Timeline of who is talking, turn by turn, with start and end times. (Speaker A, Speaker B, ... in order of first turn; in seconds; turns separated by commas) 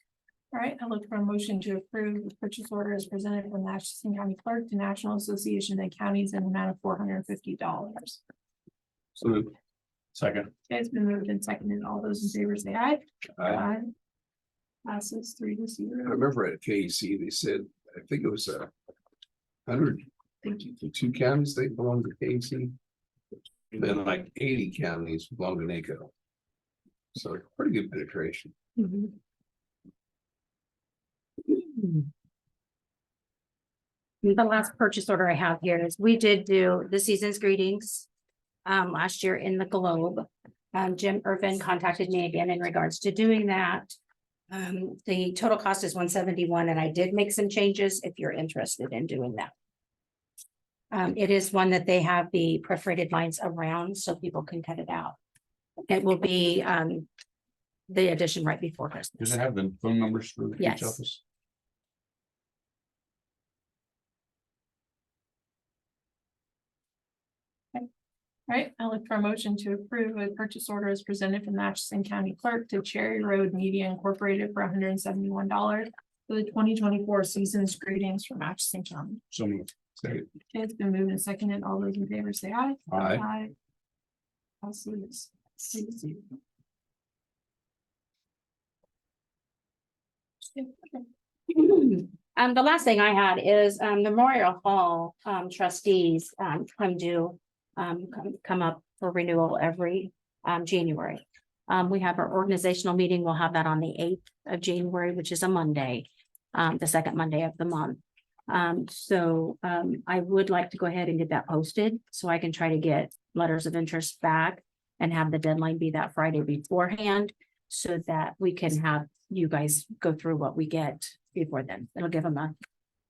Speaker A: 0.5-8.2, Speaker B: 9.2-9.5, Speaker C: 10.2-10.5, Speaker A: 10.7-13.9, Speaker B: 13.4-13.6, Speaker A: 14.8-16.2, Speaker B: 16.1-18.7, Speaker B: 19.7-20.1, Speaker A: 20.4-20.7, Speaker B: 20.7-22.8, Speaker B: 23.7-26.1, Speaker B: 27.1-28.5, Speaker D: 28.8-29.2, Speaker D: 31.5-32.1, Speaker D: 34.2-38.1, Speaker D: 38.6-44.0, Speaker D: 44.5-49.5, Speaker D: 50.9-55.2, Speaker D: 55.9-57.1, Speaker D: 57.9-59.4, Speaker C: 59.2-61.2, Speaker D: 60.6-61.0, Speaker A: 68.5-79.2, Speaker C: 79.3-80.2, Speaker A: 80.5-83.5, Speaker B: 83.0-83.3, Speaker A: 84.6-86.2, Speaker D: 91.5-122.5